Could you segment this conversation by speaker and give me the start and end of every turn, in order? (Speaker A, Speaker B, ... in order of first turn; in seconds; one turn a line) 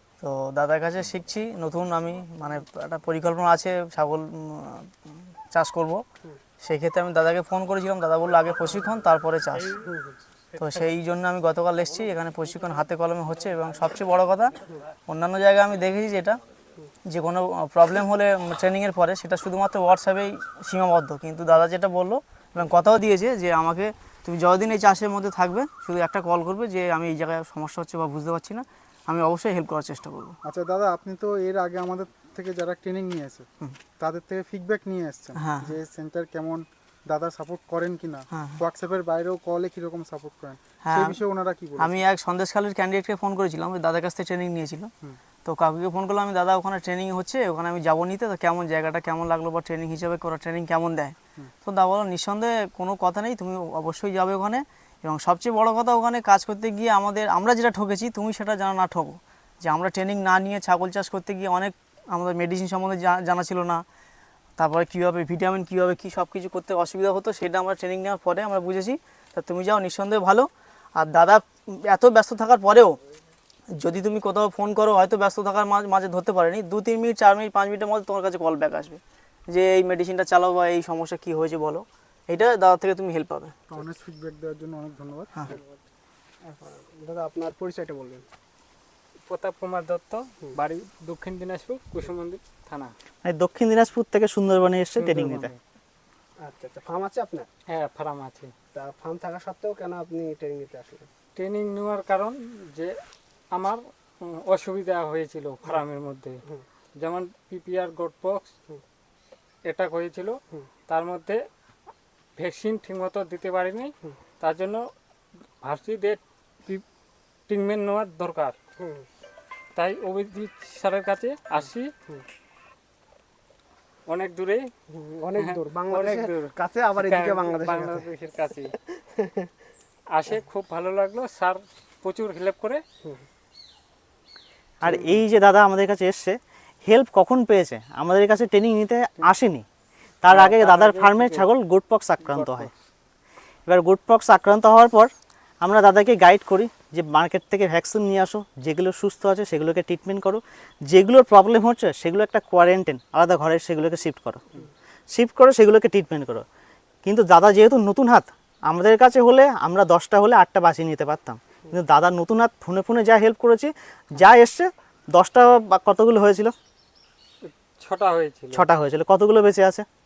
Speaker A: 0.2-4.9
Speaker A: 5.5-6.0
Speaker A: 6.6-9.7
Speaker A: 10.6-14.5
Speaker A: 15.1-16.4
Speaker A: 17.1-30.4
Speaker B: 30.4-33.4
Speaker B: 34.0-42.0
Speaker A: 35.3-35.7
Speaker A: 38.3-38.6
Speaker A: 40.8-41.2
Speaker A: 41.8-44.9
Speaker A: 45.4-63.8
Speaker A: 64.6-73.0
Speaker A: 73.8-83.8
Speaker B: 83.7-85.5
Speaker C: 86.5-88.2
Speaker D: 89.2-92.9
Speaker E: 93.2-95.5
Speaker D: 95.0-95.5
Speaker C: 96.4-97.5
Speaker D: 97.7-98.5
Speaker C: 98.7-101.1
Speaker D: 101.3-102.9
Speaker D: 103.5-106.4
Speaker D: 107.0-108.5
Speaker D: 109.7-110.3
Speaker D: 110.9-111.4
Speaker D: 112.4-114.8
Speaker D: 115.6-116.8
Speaker D: 117.5-118.5
Speaker C: 118.8-119.0
Speaker D: 119.8-121.9
Speaker D: 124.1-124.7
Speaker C: 124.9-128.1
Speaker D: 125.3-128.8
Speaker C: 129.1-129.5
Speaker D: 130.1-132.8
Speaker E: 134.8-139.6
Speaker C: 134.8-135.2
Speaker E: 140.2-142.7
Speaker D: 140.3-141.4
Speaker D: 142.3-142.7
Speaker E: 143.7-145.1
Speaker E: 145.6-154.4
Speaker E: 155.1-156.4
Speaker E: 157.0-166.5
Speaker D: 167.4-168.7
Speaker E: 168.5-169.8